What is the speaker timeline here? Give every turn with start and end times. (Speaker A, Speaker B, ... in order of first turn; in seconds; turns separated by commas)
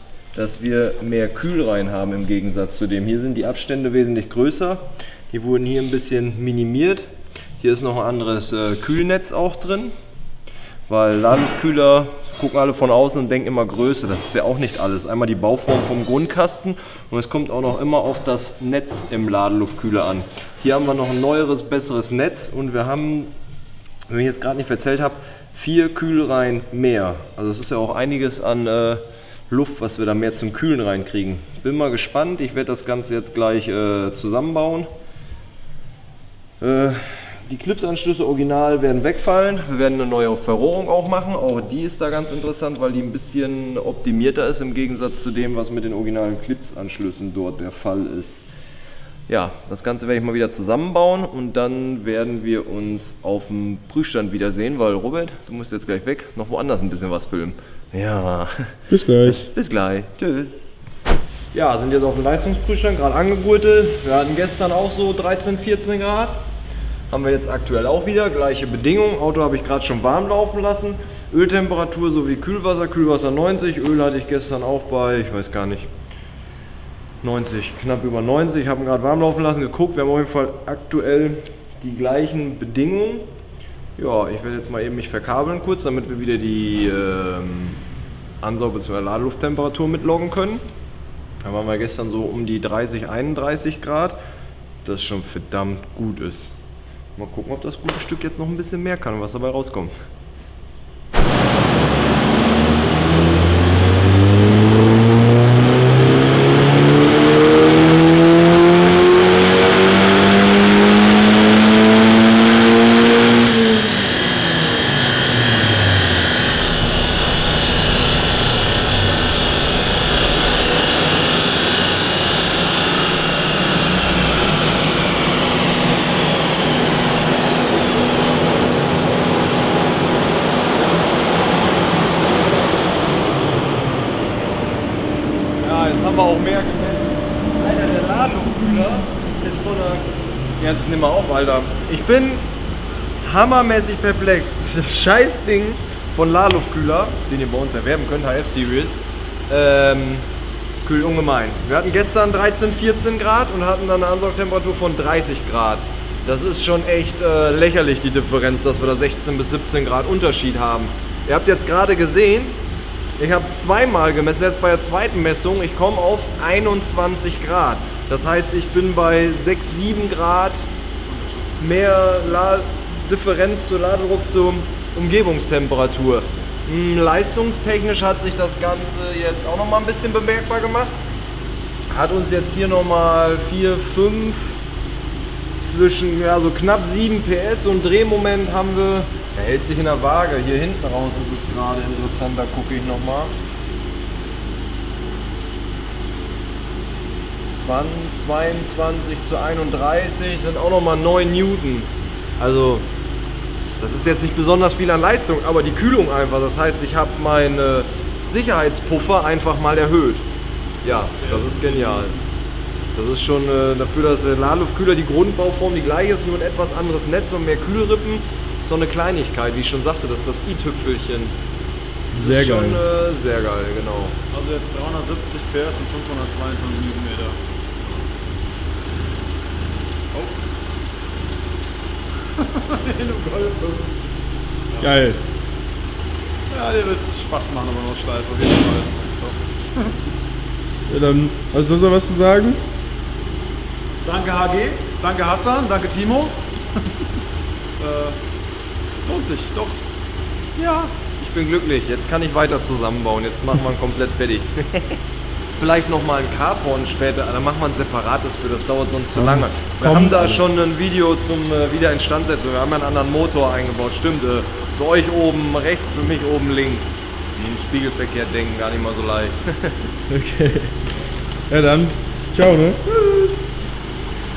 Speaker A: 0.3-7.0, Speaker A: 7.6-9.9, Speaker A: 10.9-23.3, Speaker A: 24.1-34.9, Speaker A: 36.6-48.4, Speaker A: 49.3-60.5, Speaker B: 58.9-59.4, Speaker A: 61.5-66.4, Speaker A: 67.1-75.9, Speaker A: 77.2-83.3, Speaker A: 84.0-87.8, Speaker A: 88.4-90.6, Speaker A: 91.4-94.2, Speaker A: 94.8-96.5, Speaker A: 97.2-99.9, Speaker A: 135.6-142.4, Speaker A: 143.2-150.2, Speaker A: 150.8-162.6, Speaker A: 163.2-170.7, Speaker C: 171.1-171.5, Speaker A: 171.6-180.9, Speaker A: 181.9-184.5, Speaker A: 185.6-193.3, Speaker A: 197.5-202.8, Speaker A: 203.8-210.2, Speaker A: 210.8-212.2, Speaker C: 211.2-212.2, Speaker A: 212.9-221.3, Speaker B: 222.1-222.8, Speaker A: 222.1-224.1, Speaker C: 224.3-228.0, Speaker C: 230.1-230.4, Speaker C: 232.3-234.0, Speaker B: 234.8-235.2, Speaker C: 236.5-239.9, Speaker B: 240.9-242.6, Speaker C: 244.0-246.4, Speaker C: 247.8-248.2, Speaker C: 249.0-249.8, Speaker A: 250.6-255.0, Speaker A: 255.6-269.9, Speaker B: 259.1-260.4, Speaker B: 270.1-270.7, Speaker B: 271.5-272.8